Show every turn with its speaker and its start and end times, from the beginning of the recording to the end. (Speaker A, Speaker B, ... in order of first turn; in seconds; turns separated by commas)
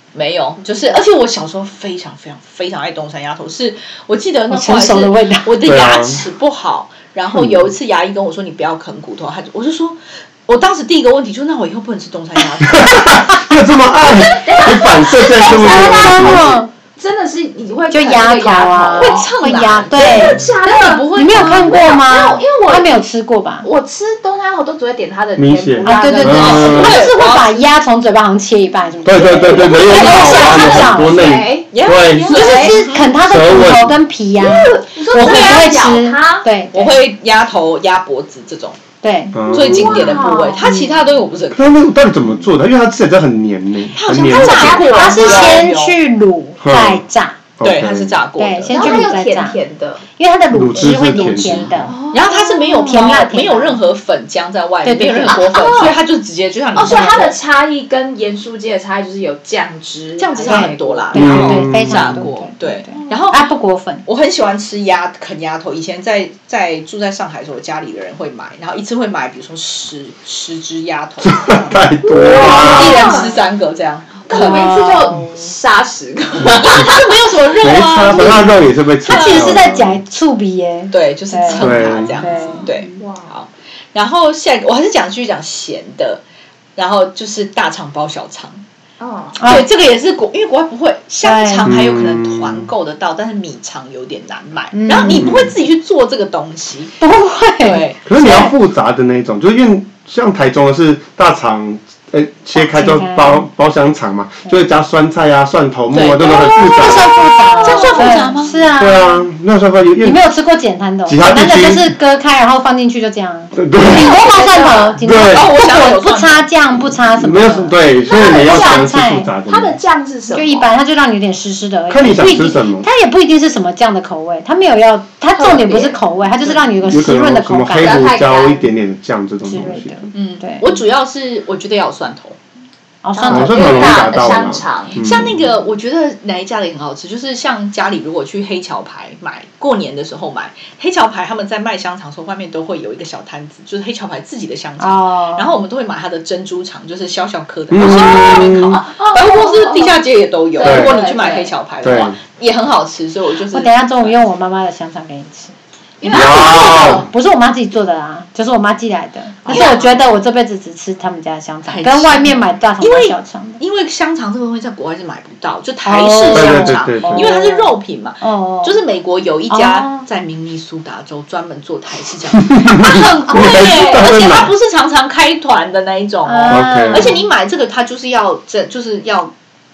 Speaker A: 0.1-13.3, Speaker B: 4.5-5.5, Speaker C: 5.6-6.2, Speaker C: 7.3-7.7, Speaker C: 12.7-16.6, Speaker D: 14.1-19.3, Speaker B: 15.6-16.7, Speaker B: 17.9-20.4, Speaker A: 18.9-22.1, Speaker D: 19.9-23.0, Speaker C: 20.0-20.4, Speaker B: 21.1-23.7, Speaker D: 23.6-27.0, Speaker C: 25.4-27.0, Speaker B: 25.8-31.4, Speaker A: 26.1-27.7, Speaker C: 29.0-32.4, Speaker A: 29.2-30.6, Speaker D: 29.6-32.8, Speaker A: 31.7-33.2, Speaker B: 32.3-37.0, Speaker C: 33.2-34.0, Speaker D: 34.4-36.5, Speaker A: 34.4-35.7, Speaker A: 36.7-38.8, Speaker B: 39.0-39.4, Speaker C: 39.3-40.2, Speaker A: 39.4-41.7, Speaker D: 39.5-40.7, Speaker B: 40.6-41.0, Speaker C: 41.5-45.0, Speaker A: 43.9-46.0, Speaker D: 44.2-45.7, Speaker B: 44.9-47.4, Speaker C: 46.6-47.0, Speaker C: 47.6-48.2, Speaker A: 47.6-49.1, Speaker B: 48.4-49.6, Speaker D: 48.7-50.0, Speaker B: 50.2-51.9, Speaker C: 50.5-51.9, Speaker A: 50.8-57.4, Speaker D: 51.9-53.2, Speaker B: 52.8-53.8, Speaker B: 54.8-55.5, Speaker D: 55.2-56.0, Speaker D: 56.7-61.3, Speaker B: 56.8-57.2, Speaker A: 60.2-63.5, Speaker B: 60.4-64.0, Speaker C: 61.1-62.2, Speaker A: 64.0-74.8, Speaker C: 71.2-73.1, Speaker D: 72.0-73.4, Speaker D: 74.2-77.2, Speaker B: 74.3-75.5, Speaker C: 76.4-76.7, Speaker A: 76.5-79.7, Speaker C: 77.6-80.0, Speaker B: 79.0-82.9, Speaker A: 80.9-86.2, Speaker C: 81.5-82.3, Speaker D: 82.5-83.3, Speaker A: 86.8-88.6, Speaker D: 89.0-89.5, Speaker B: 89.4-89.7, Speaker A: 89.4-97.0, Speaker B: 91.2-91.7, Speaker C: 91.6-92.7, Speaker B: 94.7-95.3, Speaker C: 95.2-95.5, Speaker B: 97.0-98.5, Speaker A: 97.6-98.4, Speaker C: 98.0-107.2, Speaker B: 102.5-103.5, Speaker A: 105.9-108.6, Speaker B: 106.3-109.2, Speaker D: 107.6-108.3, Speaker C: 108.8-110.2, Speaker B: 110.0-119.3, Speaker C: 111.0-111.9, Speaker C: 113.5-114.2, Speaker D: 113.8-115.0, Speaker C: 115.0-115.6, Speaker A: 115.3-116.5, Speaker C: 116.7-119.8, Speaker D: 118.0-120.7, Speaker B: 120.3-128.1, Speaker C: 121.9-122.9, Speaker D: 125.3-126.0, Speaker C: 126.8-130.0, Speaker D: 127.8-128.7, Speaker B: 129.4-130.7, Speaker A: 130.1-132.4, Speaker B: 133.0-134.4, Speaker D: 133.1-135.0, Speaker C: 133.3-135.4, Speaker A: 134.9-154.1, Speaker B: 144.8-145.6, Speaker C: 147.7-148.8, Speaker D: 147.8-151.5, Speaker C: 150.6-150.9, Speaker C: 151.8-152.2, Speaker B: 153.5-155.5, Speaker D: 156.0-157.1, Speaker C: 156.1-157.1, Speaker B: 156.1-163.6, Speaker D: 159.4-160.0, Speaker A: 159.5-160.0, Speaker A: 161.7-179.3, Speaker B: 165.8-168.8, Speaker C: 166.3-167.3, Speaker B: 169.5-170.0, Speaker C: 172.6-174.5, Speaker B: 176.2-177.3, Speaker C: 176.5-177.2